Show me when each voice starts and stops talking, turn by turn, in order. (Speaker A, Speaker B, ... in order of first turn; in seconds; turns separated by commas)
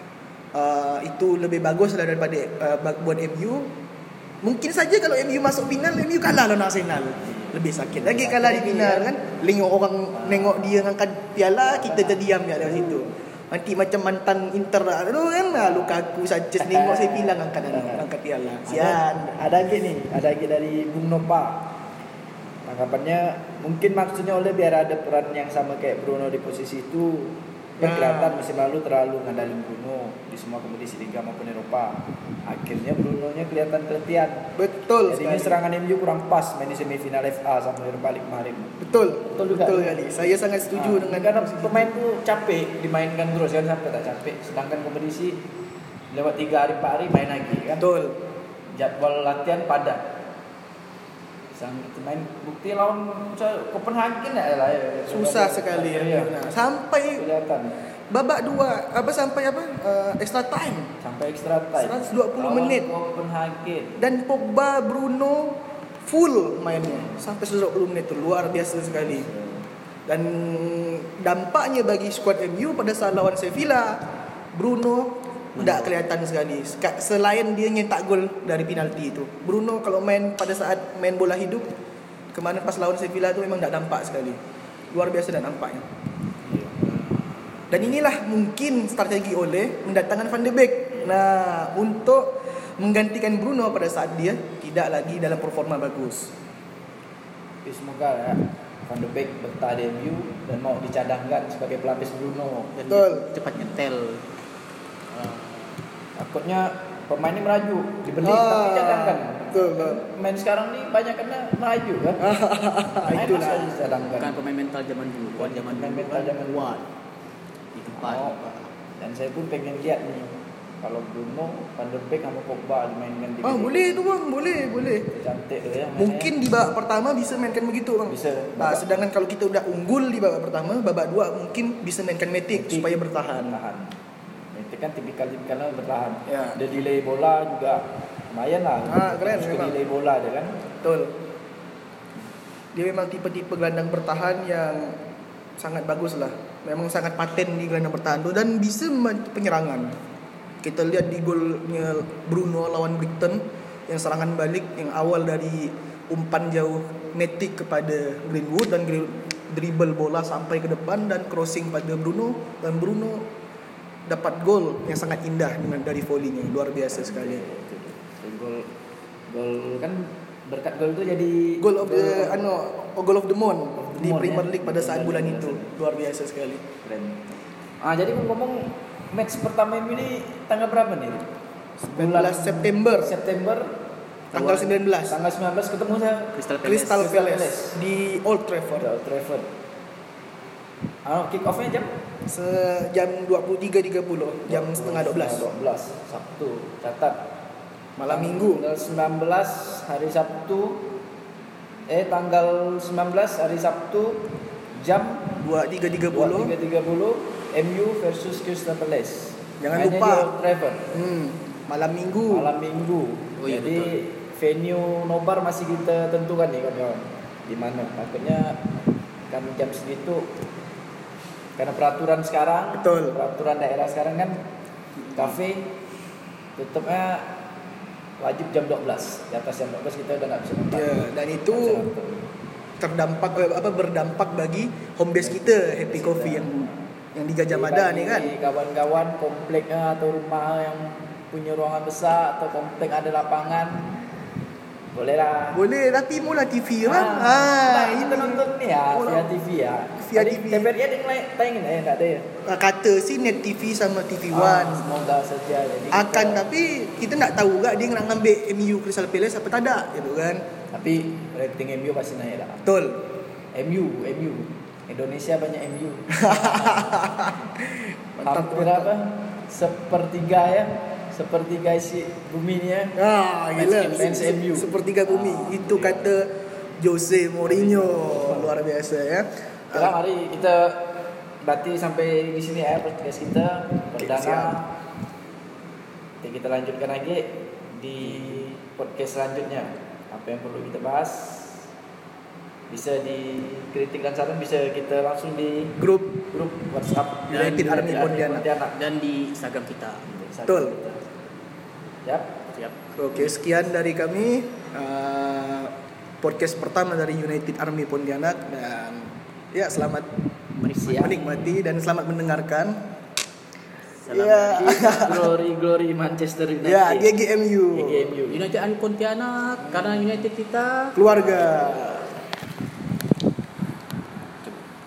Speaker A: 0.5-3.7, Speaker A: 4.4-19.3, Speaker B: 7.4-9.4, Speaker B: 11.8-12.2, Speaker B: 16.6-18.1, Speaker B: 18.7-21.7, Speaker B: 22.6-34.5, Speaker A: 27.8-28.4, Speaker A: 34.5-35.6, Speaker B: 35.1-40.2, Speaker A: 38.8-41.9, Speaker B: 40.7-45.4, Speaker B: 46.1-47.9, Speaker A: 47.8-48.2, Speaker B: 48.7-50.0, Speaker B: 51.5-56.5, Speaker A: 55.1-57.2, Speaker B: 57.1-57.7, Speaker A: 58.1-60.9, Speaker B: 61.0-64.0, Speaker A: 61.8-62.9, Speaker A: 64.0-69.3, Speaker B: 69.1-69.6, Speaker A: 70.0-81.7, Speaker C: 75.5-76.0, Speaker A: 82.3-84.4, Speaker A: 84.9-85.8, Speaker C: 86.7-87.7, Speaker A: 87.7-96.3, Speaker B: 97.6-102.7, Speaker C: 102.7-104.2, Speaker A: 102.9-103.3, Speaker C: 105.1-105.8, Speaker B: 106.2-112.2, Speaker A: 108.2-110.0, Speaker A: 112.2-113.7, Speaker B: 113.0-114.4, Speaker C: 114.2-116.9, Speaker B: 115.3-116.8, Speaker C: 117.7-118.7, Speaker B: 117.9-118.3, Speaker B: 119.0-124.0, Speaker A: 123.4-125.1, Speaker B: 125.1-126.3, Speaker A: 125.9-133.5, Speaker B: 128.1-128.9, Speaker B: 132.5-133.9, Speaker B: 134.5-140.5, Speaker A: 136.3-136.6, Speaker A: 138.9-139.8, Speaker A: 140.8-141.1, Speaker A: 142.7-145.0, Speaker A: 145.6-149.9, Speaker A: 150.6-163.3, Speaker A: 164.1-167.4, Speaker B: 166.9-168.7, Speaker B: 169.3-172.4, Speaker A: 171.6-176.6, Speaker B: 173.8-175.7, Speaker B: 176.8-177.2, Speaker B: 177.8-181.3, Speaker A: 181.8-183.1, Speaker B: 181.9-183.7, Speaker A: 184.3-185.2, Speaker C: 184.3-184.7, Speaker B: 185.1-186.4, Speaker C: 186.3-187.1, Speaker A: 186.6-188.9, Speaker B: 186.9-187.8, Speaker B: 188.8-189.5, Speaker B: 191.1-191.9, Speaker A: 192.3-195.4, Speaker B: 194.5-197.3, Speaker A: 198.0-198.7, Speaker B: 198.1-201.0, Speaker B: 201.9-205.4, Speaker A: 205.4-206.5, Speaker B: 206.1-210.9, Speaker A: 209.6-210.3, Speaker A: 210.9-212.5, Speaker B: 212.3-218.6, Speaker C: 213.4-214.0, Speaker B: 219.3-220.3, Speaker B: 221.6-224.4, Speaker A: 222.7-223.2, Speaker B: 225.1-225.7, Speaker B: 226.6-227.4, Speaker B: 228.2-232.3, Speaker A: 230.7-231.9, Speaker A: 232.8-238.3, Speaker B: 235.2-236.8, Speaker B: 237.5-244.0, Speaker B: 244.9-245.7, Speaker A: 245.5-249.3, Speaker B: 246.8-252.3, Speaker A: 250.0-250.7, Speaker A: 252.4-254.8, Speaker B: 254.3-256.4, Speaker A: 255.9-260.4, Speaker B: 260.7-262.7, Speaker A: 262.6-263.0, Speaker B: 263.5-267.1, Speaker A: 266.2-268.9, Speaker B: 268.2-272.9, Speaker A: 272.9-279.9, Speaker C: 273.6-274.4, Speaker B: 273.6-274.7, Speaker C: 275.1-276.1, Speaker B: 277.5-278.5, Speaker B: 279.7-284.7, Speaker A: 284.0-284.6, Speaker B: 286.2-291.6, Speaker B: 292.7-295.8, Speaker A: 295.8-296.2, Speaker B: 296.3-298.8, Speaker C: 297.3-300.1, Speaker A: 297.3-298.4, Speaker B: 300.1-301.1, Speaker A: 300.4-300.7, Speaker B: 302.0-302.3, Speaker A: 303.0-310.1, Speaker C: 310.6-311.2, Speaker B: 310.8-311.2, Speaker A: 310.9-312.8, Speaker C: 314.0-315.2, Speaker A: 314.1-315.3, Speaker B: 314.4-317.1, Speaker A: 316.6-318.1, Speaker B: 317.7-318.5, Speaker C: 318.3-321.9, Speaker A: 320.9-322.1